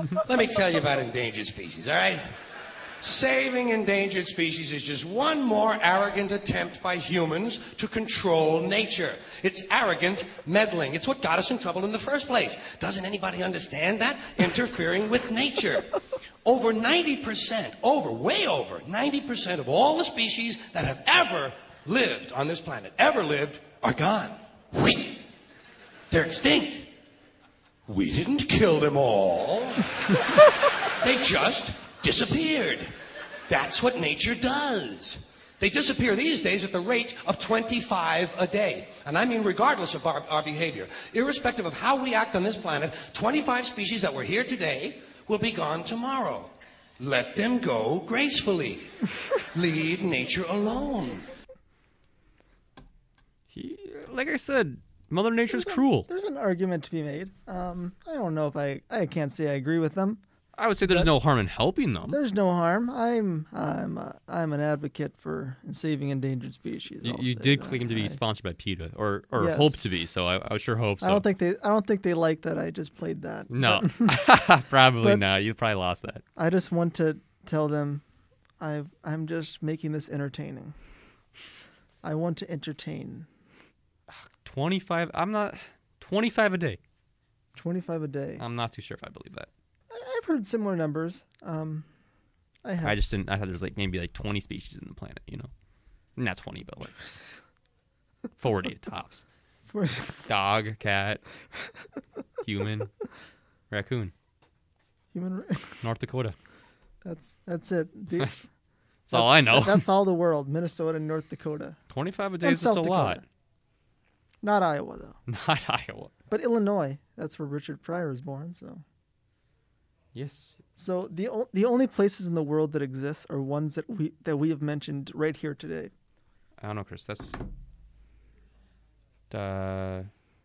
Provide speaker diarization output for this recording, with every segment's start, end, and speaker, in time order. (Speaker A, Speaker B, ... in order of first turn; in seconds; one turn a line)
Speaker A: 0.2-2.3
Speaker A: 3.0-25.2
Speaker A: 26.1-26.9
Speaker A: 27.9-30.4
Speaker A: 31.0-32.9
Speaker A: 33.5-48.9
Speaker A: 49.5-51.3
Speaker B: 53.5-56.1
Speaker C: 55.5-60.2
Speaker B: 60.6-62.2
Speaker C: 60.9-61.1
Speaker C: 62.1-68.2
Speaker B: 67.0-71.2
Speaker C: 69.4-69.8
Speaker C: 71.0-74.4
Speaker B: 73.5-76.2
Speaker C: 75.0-75.2
Speaker C: 76.4-78.0
Speaker C: 78.6-80.8
Speaker C: 82.0-83.3
Speaker B: 84.1-86.8
Speaker C: 87.6-88.4
Speaker B: 88.4-89.5
Speaker C: 89.9-91.9
Speaker C: 92.6-93.0
Speaker B: 92.8-95.5
Speaker B: 96.2-97.0
Speaker B: 98.4-99.2
Speaker C: 99.7-100.2
Speaker B: 100.3-101.2
Speaker B: 102.4-102.9
Speaker B: 103.7-104.1
Speaker C: 105.1-105.8
Speaker B: 105.8-106.4
Speaker C: 107.0-108.5
Speaker B: 108.2-108.4
Speaker B: 109.1-109.9
Speaker C: 109.1-111.8
Speaker B: 111.9-113.2
Speaker C: 112.4-113.2
Speaker C: 114.4-115.2
Speaker B: 115.3-116.1
Speaker C: 116.3-118.8
Speaker B: 120.1-120.6
Speaker C: 120.8-125.9
Speaker B: 126.6-127.4
Speaker B: 129.3-130.1